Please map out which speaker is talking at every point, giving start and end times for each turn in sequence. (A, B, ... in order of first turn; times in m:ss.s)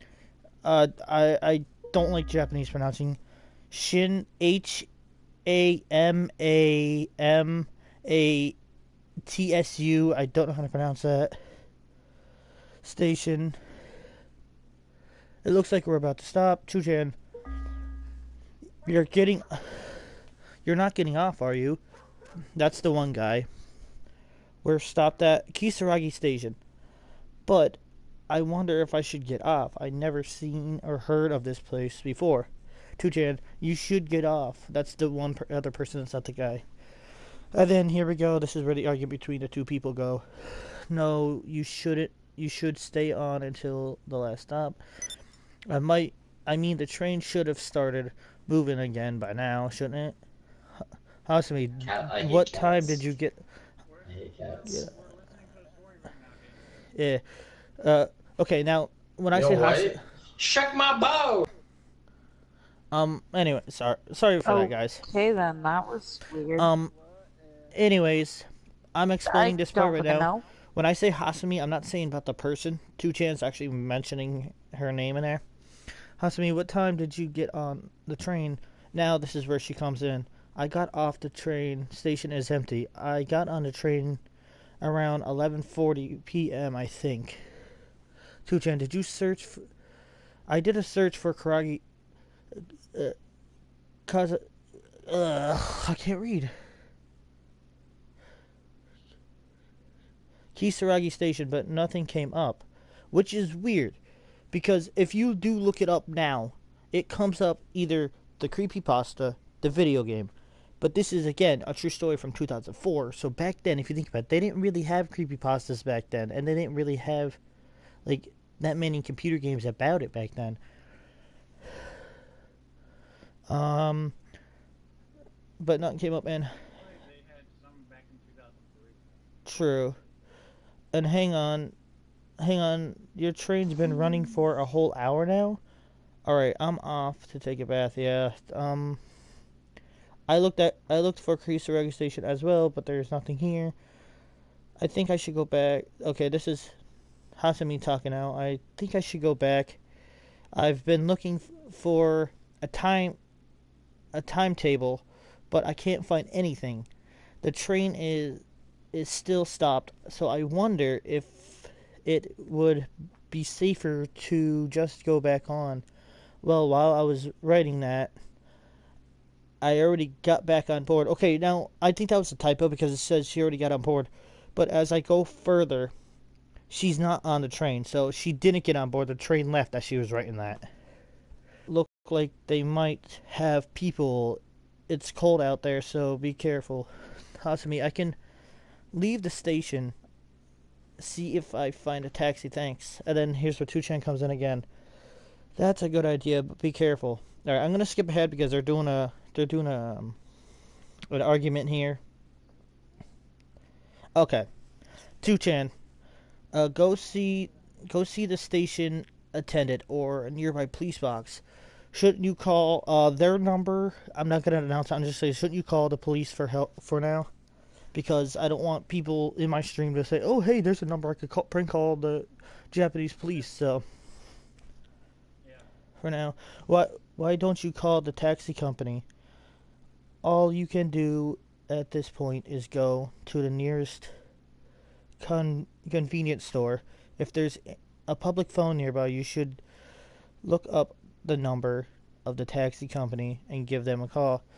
0:00.6-0:03.2 A
0:03.7-0:04.9 A
0:05.4-0:08.6 A
0:09.2-0:11.4 A
0:12.8-0:13.6 A
0:15.4-0:17.2 A
0:18.8-0:20.1 A
0:20.6-0:21.8 A
0:22.6-0:23.5 A
0:24.6-0:26.6 A
0:27.4-0:36.6 A
0:37.5-0:44.8 A
0:45.7-0:50.2 A
0:51.3-0:53.4 A
0:51.8-0:53.0 B
0:53.8-0:56.9 C
0:54.1-0:54.6 B
0:54.6-0:54.9 A
0:56.9-0:57.2 A
0:57.8-1:00.0 A
0:59.3-1:01.4 B
1:02.9-1:05.0 A
1:04.4-1:06.7 D
1:06.6-1:06.9 A
1:06.7-1:08.1 C
1:07.7-1:15.4 A
1:09.2-1:10.4 D
1:16.2-1:24.2 A
1:24.8-1:27.5 A
1:28.4-1:29.7 A
1:30.5-1:31.8 A
1:34.1-1:34.5 A
1:35.0-1:36.5 A
1:40.5-1:44.0 A
1:44.5-1:57.4 A
1:58.0-2:00.6 A
2:03.5-2:04.1 A
2:05.6-2:06.5 A
2:06.7-2:09.4 C
2:09.4-2:10.0 A
2:10.9-2:11.7 A
2:12.4-2:15.6 A
2:16.2-2:19.0 A
2:20.3-2:23.7 A
2:24.8-2:26.7 A
2:27.4-2:29.8 A
2:30.5-2:33.2 A
2:34.1-2:36.9 A
2:37.4-2:45.8 A
2:46.4-2:48.1 A
2:49.6-2:55.9 A
2:56.7-3:00.7 A
3:01.7-3:08.2 A
3:08.9-3:09.9 A
3:11.0-3:14.7 A
3:15.6-3:20.2 A
3:21.1-3:22.0 A
3:24.2-3:24.5 A
3:25.2-3:25.7 A
3:26.5-3:31.4 A
3:31.9-3:37.3 A
3:37.9-3:43.8 A
3:45.4-3:45.7 C
3:46.0-3:49.0 A
3:50.2-3:54.1 A
3:55.2-3:59.6 A
4:00.4-4:04.4 A